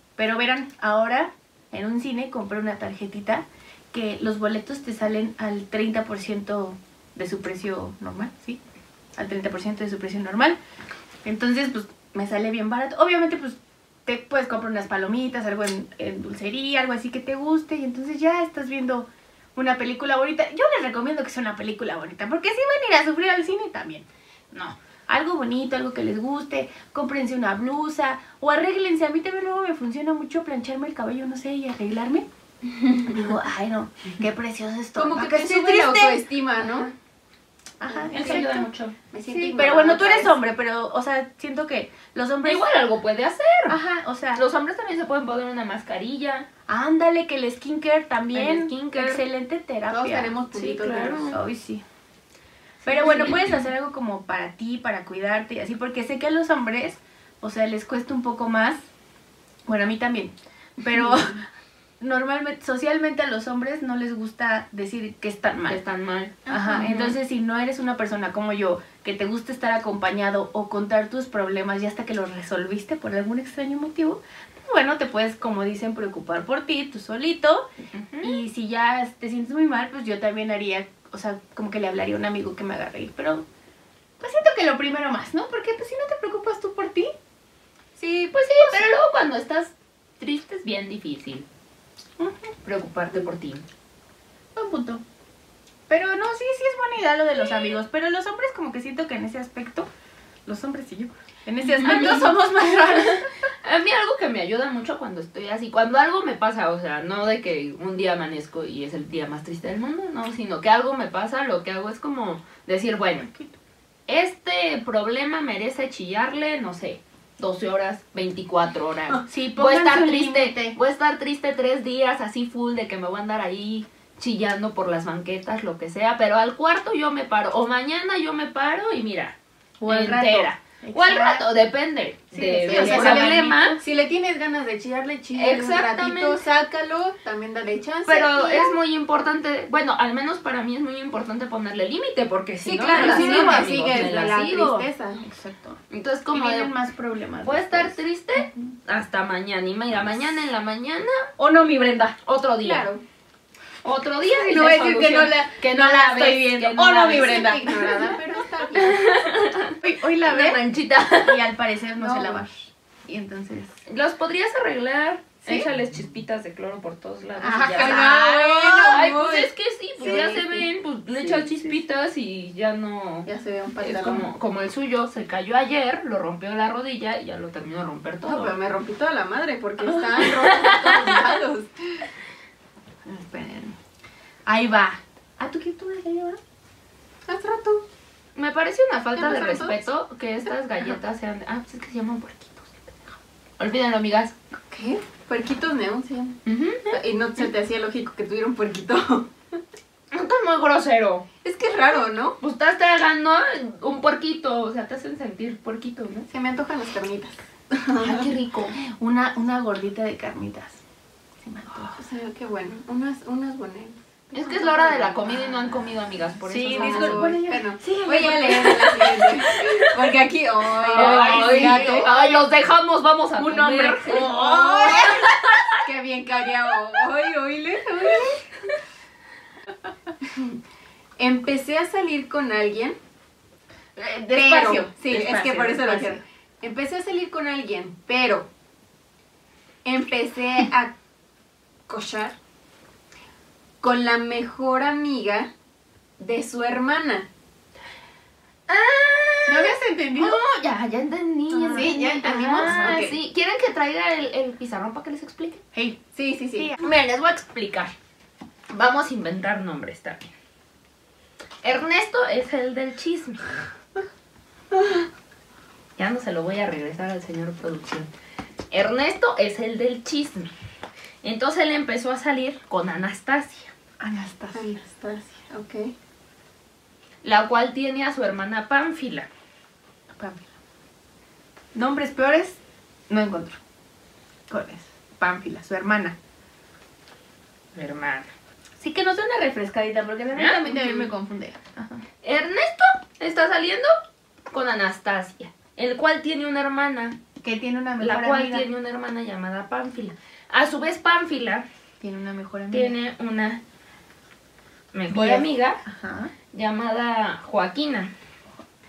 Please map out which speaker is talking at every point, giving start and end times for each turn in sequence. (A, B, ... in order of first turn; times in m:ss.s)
0:00.2-0:08.6 A
0:09.2-0:10.6 A
0:11.2-0:32.3 A
0:33.0-0:36.8 A
0:35.0-0:36.9 B
0:37.8-0:38.7 A
0:37.9-0:38.5 B
0:38.1-0:38.9 C
0:39.1-0:40.4 B
0:39.3-0:42.6 A
0:42.4-0:43.8 C
0:43.7-0:44.4 A
0:44.4-0:46.5 C
0:46.7-0:50.4 A
0:48.3-0:49.2 C
0:49.9-0:51.4 B
0:50.5-0:51.4 C
0:51.3-0:51.8 A
0:52.8-0:58.8 A
0:53.0-0:53.3 C
0:59.7-1:01.4 A
1:01.0-1:01.3 B
1:02.0-1:05.8 A
1:05.7-1:07.1 C
1:06.5-1:07.0 B
1:06.5-1:17.7 A
1:17.9-1:18.4 C
1:18.2-1:23.4 A
1:24.2-1:27.1 A
1:28.0-1:31.5 C
1:32.2-1:32.5 A
1:32.6-1:33.6 C
1:34.6-1:35.0 A
1:35.9-1:39.9 A
1:40.5-1:43.3 A
1:41.8-1:42.3 C
1:43.6-1:53.3 C
1:53.3-1:53.5 A
1:54.1-2:09.4 C
1:59.2-2:00.8 A
2:09.8-2:11.5 A
2:09.9-2:13.8 C
2:12.3-2:13.8 A
2:12.6-2:18.8 B
2:15.4-2:16.4 C
2:18.1-2:24.9 C
2:22.7-2:25.2 B
2:22.7-2:24.5 A
2:25.2-2:25.8 A
2:25.9-2:26.7 C
2:26.3-2:28.7 A
2:27.4-2:31.3 C
2:31.4-2:32.2 A
2:32.2-2:32.9 C
2:32.6-2:33.0 B
2:33.8-2:37.6 C
2:34.4-2:38.1 A
2:37.0-2:39.1 B
2:38.7-2:41.4 C
2:39.8-2:43.7 A
2:42.0-2:42.4 B
2:43.9-2:48.1 C
2:47.4-2:49.1 A
2:47.8-2:50.7 B
2:48.9-2:53.3 C
2:50.0-2:50.4 A
2:53.3-2:54.3 B
2:53.8-2:58.6 C
2:58.2-3:02.1 B
3:00.2-3:01.3 C
3:03.1-3:03.8 A
3:04.5-3:06.4 A
3:07.3-3:07.8 B
3:08.4-3:14.3 C
3:09.2-3:09.8 B
3:14.7-3:19.3 B
3:16.5-3:17.0 C
3:20.1-3:21.3 C
3:21.4-3:22.4 B
3:22.4-3:26.3 C
3:26.3-3:28.3 B
3:28.0-3:28.8 C
3:28.8-3:30.8 A
3:31.4-3:32.0 A
3:32.0-3:35.8 B
3:34.3-3:37.3 C
3:36.5-3:39.3 A
3:36.6-3:42.1 B
3:40.8-3:42.4 A
3:40.8-3:45.8 C
3:43.4-3:45.3 A
3:44.0-3:45.3 B
3:45.8-3:48.5 B
3:50.2-3:50.6 B
3:51.2-3:53.0 B
3:54.0-3:56.2 A
3:54.3-3:58.5 B
3:59.8-4:01.0 B
4:01.9-4:02.4 B
4:03.8-4:05.5 B
4:06.2-4:07.3 B
4:08.7-4:15.6 C
4:09.5-4:10.4 A
4:11.5-4:13.2 A
4:11.7-4:13.1 B
4:15.7-4:16.0 A
4:16.2-4:16.8 B
4:16.8-4:17.9 C
4:18.7-4:20.3 C
4:21.6-4:23.6 C
4:26.0-4:28.1 C
4:28.7-4:30.5 C
4:31.2-4:33.7 C
4:34.0-4:34.8 A
4:34.6-4:35.9 B
4:37.2-4:39.3 C
4:40.2-4:40.5 A
4:41.8-4:43.6 A
4:44.5-4:46.2 A
4:47.8-4:48.3 C
4:48.8-4:52.0 A
4:50.4-4:51.1 C
4:52.2-4:53.9 C
4:54.5-4:57.2 C
4:57.4-4:58.7 A
4:58.0-5:01.7 C
5:02.0-5:03.0 A
5:02.7-5:03.6 C
5:04.9-5:05.8 C
5:05.1-5:06.3 A
5:06.5-5:08.1 C